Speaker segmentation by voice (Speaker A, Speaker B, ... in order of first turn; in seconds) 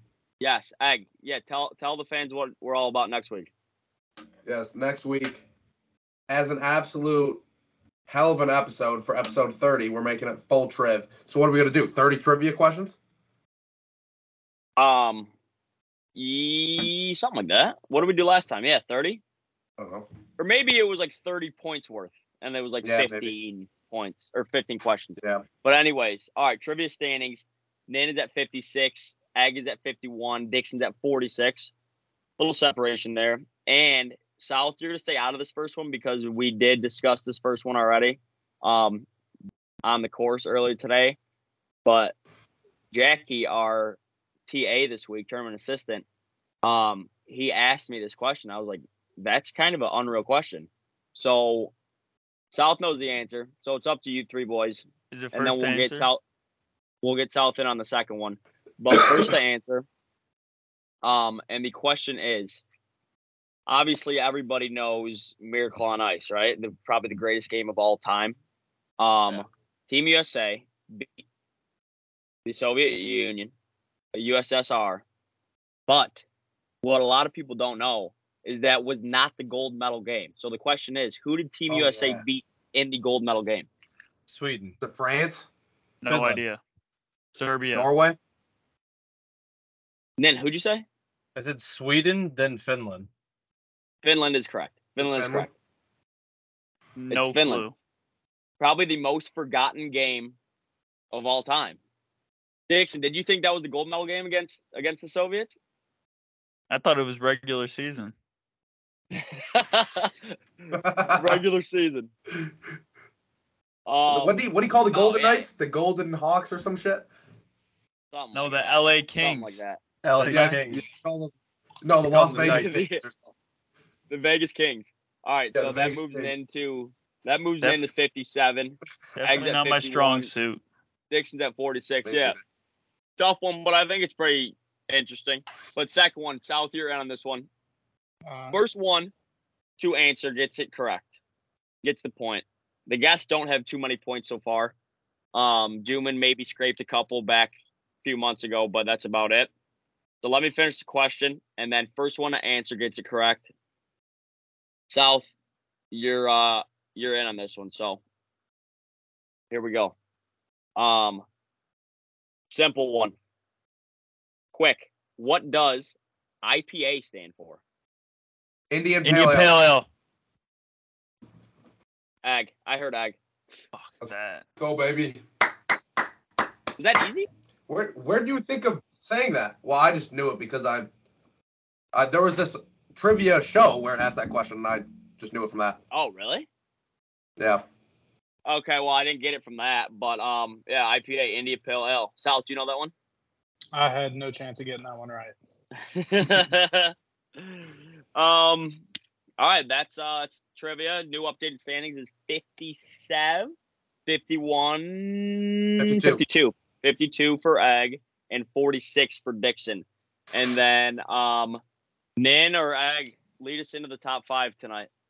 Speaker A: 0.4-3.5, 14.8-15.3, 16.1-19.2, 20.4-31.7, 32.4-39.1, 39.8-41.2, 41.8-42.1, 42.9-46.0, 46.6-51.7, 52.5-56.2, 57.0-59.9, 61.0-62.6, 63.7-68.4, 69.0-71.1, 72.5-73.5, 74.1-75.0, 75.9-76.2, 76.8-83.7, 90.2-90.8, 94.0-95.5, 97.1-97.6, 98.6-100.3, 101.1-101.8, 102.7-105.5, 109.1-112.1, 113.9-114.4, 114.9-115.5, 118.1-119.8, 122.4-123.0, 124.1-130.3, 131.1-132.4, 133.2-137.5, 138.5-139.1, 139.8-141.0, 141.8-144.7, 145.3-149.5, 150.2-153.4, 154.9-155.3, 155.9-158.0, 159.5-159.9, 160.8-161.2, 162.5-163.1, 164.5-167.6, 172.2-173.2, 176.8-177.3, 185.9-186.5, 188.4-192.9, 195.8-198.8, 199.4-203.5, 204.1-211.6, 212.2-214.9
Speaker B: 4.4-5.4, 6.3-7.4, 8.1-12.9, 19.8-20.0, 22.8-23.3, 25.2-25.4, 81.7-82.2, 84.8-85.5, 87.7-88.2, 95.0-95.5, 110.7-111.4, 114.1-117.1, 120.2-123.2, 125.5-126.3, 132.0-132.4, 168.7-169.6, 174.0-175.2, 177.7-180.9, 181.9-185.8, 187.4-187.6, 205.8-206.2
Speaker C: 55.1-56.1, 86.0-86.6, 87.3-87.9, 97.0-97.7, 106.7-108.1, 118.3-119.6, 129.2-130.6, 169.0-169.9, 173.7-174.4
Speaker D: 84.3-84.8, 86.1-86.4, 91.3-93.1, 120.0-120.8, 122.0-122.8
Speaker E: 138.3-138.6, 193.7-195.3